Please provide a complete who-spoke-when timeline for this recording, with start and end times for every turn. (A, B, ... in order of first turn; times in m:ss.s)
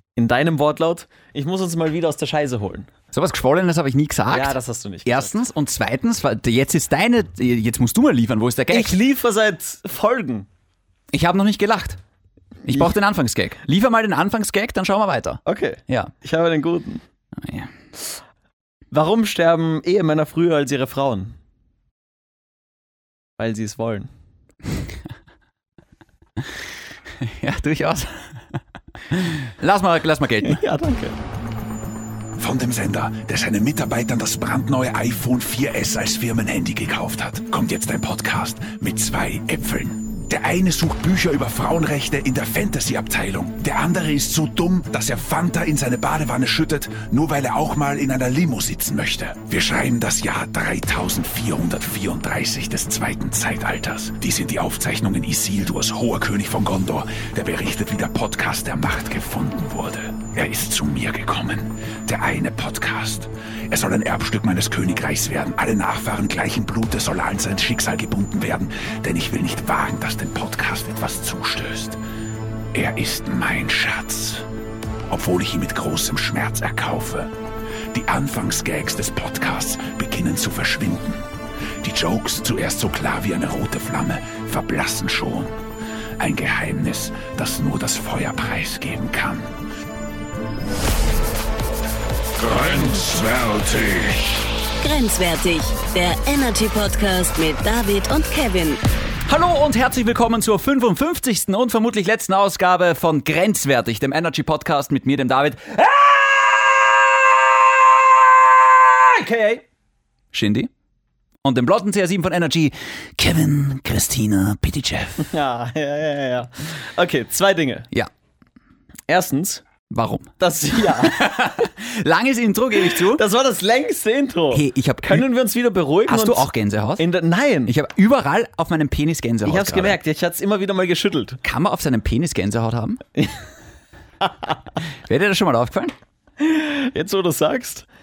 0:00.2-0:02.9 A
0:03.1-0:09.0 B
0:04.3-0:05.4 A
0:08.7-0:10.5 A
0:11.1-0:12.0 B
0:12.6-0:16.1 B
0:15.4-0:17.0 A
0:17.4-0:17.7 B
0:18.9-0:21.4 A
0:23.4-0:24.1 A
0:27.2-0:28.6 B
0:29.1-0:30.6 B
0:30.4-0:31.2 A
0:32.4-1:12.0 C
1:12.7-1:14.5 C
1:15.1-1:17.3 C
1:17.9-1:21.2 C
1:21.8-1:25.6 C
1:26.2-1:29.5 C
1:32.4-1:34.5 C
1:34.8-1:38.8 D
1:39.3-1:47.4 B
1:48.8-1:49.6 B
1:50.3-1:50.7 B
1:51.4-1:55.3 B
1:55.2-1:57.9 A
1:59.1-1:59.6 A
1:59.9-2:03.2 B
2:00.4-2:01.5 A
2:03.0-2:07.7 A
2:04.5-2:05.2 B
2:06.1-2:07.1 B
2:07.7-2:10.0 B
2:09.4-2:11.4 A
2:11.4-2:13.0 B
2:13.2-2:13.4 A
2:14.2-2:14.5 A
2:15.1-2:15.9 B
2:16.4-2:17.9 A